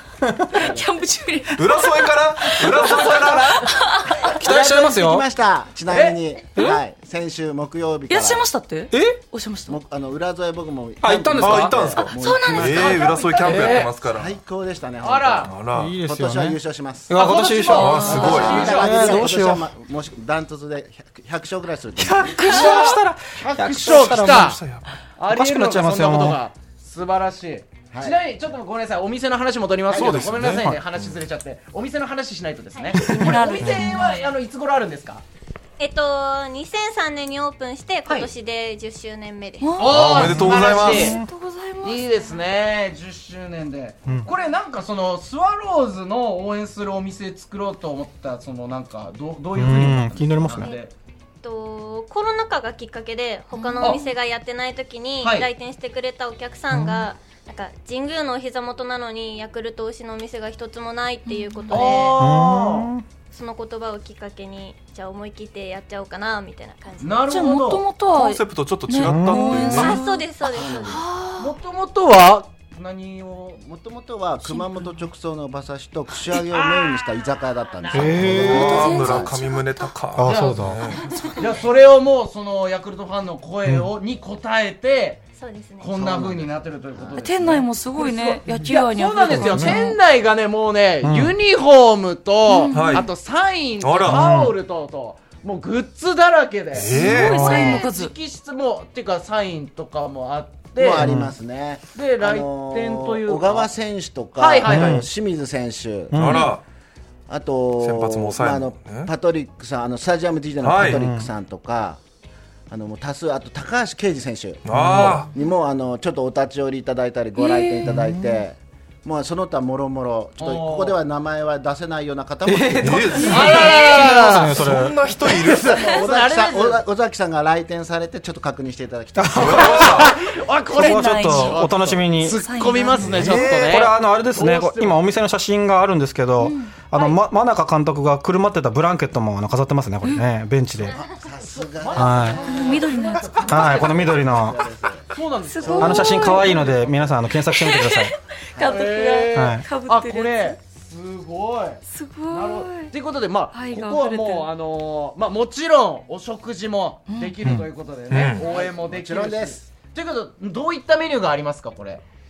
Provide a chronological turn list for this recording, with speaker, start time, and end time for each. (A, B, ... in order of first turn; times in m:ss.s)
0:00.2-0:00.6 A
0:00.5-0:02.9 B
0:00.6-0:00.9 C
0:01.6-0:03.6 D
0:02.7-0:03.7 E
0:03.6-0:04.3 B
0:04.3-0:05.2 A
0:04.4-0:08.5 C
0:05.9-0:06.6 E
0:08.1-0:09.8 B
0:08.9-0:09.2 A
0:09.7-0:17.2 C
0:11.0-0:11.9 A
0:11.4-0:14.4 D
0:12.1-0:13.9 B
0:13.4-0:14.0 E
0:15.0-0:15.5 E
0:15.4-0:16.0 D
0:15.7-0:19.7 A
0:17.1-0:19.1 E
0:17.3-0:19.3 B
0:17.7-0:18.7 D
0:18.0-0:22.6 C
0:22.0-0:24.6 A
0:22.3-0:24.6 E
0:24.0-0:24.9 D
0:25.2-0:35.2 E
0:25.3-0:26.4 A
0:27.9-0:28.2 C
0:29.9-0:31.2 D
0:29.9-0:30.8 A
0:32.7-0:33.4 F
0:32.9-0:34.0 B
0:35.8-0:39.9 F
0:39.6-0:42.2 B
0:39.8-0:41.2 E
0:39.8-0:41.1 D
0:40.2-0:41.3 A
0:41.8-0:50.9 E
0:49.6-0:50.7 A
0:51.4-1:02.2 F
0:53.5-0:54.0 B
0:53.8-0:54.1 E
0:55.2-0:55.5 E
0:56.7-0:57.1 A
1:01.2-1:01.8 B
1:01.7-1:02.9 E
1:02.2-1:03.0 A
1:03.3-1:07.5 F
1:07.0-1:07.9 E
1:07.3-1:11.5 B
1:08.1-1:10.0 D
1:09.0-1:09.9 A
1:09.5-1:11.0 F
1:10.6-1:11.1 C
1:11.4-1:13.6 E
1:13.6-1:19.5 C
1:14.4-1:14.9 B
1:16.3-1:18.8 E
1:17.9-1:18.6 A
1:18.0-1:21.1 D
1:18.3-1:19.9 B
1:20.2-1:20.8 A
1:20.3-1:20.7 E
1:20.9-1:21.5 F
1:21.4-1:25.3 E
1:25.4-1:26.0 F
1:25.8-1:41.1 E
1:25.9-1:27.2 C
1:27.1-1:30.0 B
1:29.3-1:29.8 A
1:31.0-1:31.3 A
1:32.5-1:33.1 B
1:32.7-1:33.1 D
1:33.8-1:34.3 D
1:34.1-1:34.6 A
1:36.7-1:37.5 D
1:36.8-1:38.1 B
1:37.0-1:37.7 A
1:40.8-1:46.4 C
1:41.0-1:41.4 A
1:41.9-1:43.7 E
1:44.4-1:45.0 E
1:44.7-1:45.1 A
1:46.1-1:46.5 A
1:46.2-1:46.6 D
1:46.3-1:46.5 B
1:47.3-1:52.0 C
1:47.8-1:49.1 D
1:50.6-1:51.1 D
1:50.8-1:51.3 A
1:52.7-2:04.6 C
1:54.6-1:55.3 D
1:54.7-1:55.3 A
1:57.4-1:57.8 B
1:57.8-1:58.4 A
2:00.4-2:01.0 E
2:02.5-2:05.0 A
2:02.8-2:05.7 D
2:03.2-2:03.8 B
2:03.3-2:04.7 E
2:05.2-2:06.8 E
2:05.4-2:10.0 C
2:09.2-2:10.0 A
2:09.3-2:10.2 D
2:09.6-2:15.1 E
2:10.7-2:12.4 A
2:10.7-2:11.7 B
2:12.3-2:13.5 B
2:13.0-2:21.0 A
2:13.1-2:13.9 D
2:16.4-2:16.8 B
2:20.8-2:25.1 C
2:21.4-2:24.0 E
2:22.0-2:22.6 A
2:22.4-2:23.8 B
2:23.4-2:24.6 A
2:25.1-2:27.0 E
2:25.4-2:26.8 B
2:25.6-2:26.3 C
2:25.8-2:28.1 A
2:27.5-2:30.6 B
2:28.6-2:42.0 E
2:29.3-2:29.6 A
2:31.9-2:32.9 B
2:33.5-2:34.5 B
2:37.1-2:37.3 B
2:38.1-2:38.5 D
2:38.3-2:38.7 F
2:38.4-2:39.8 C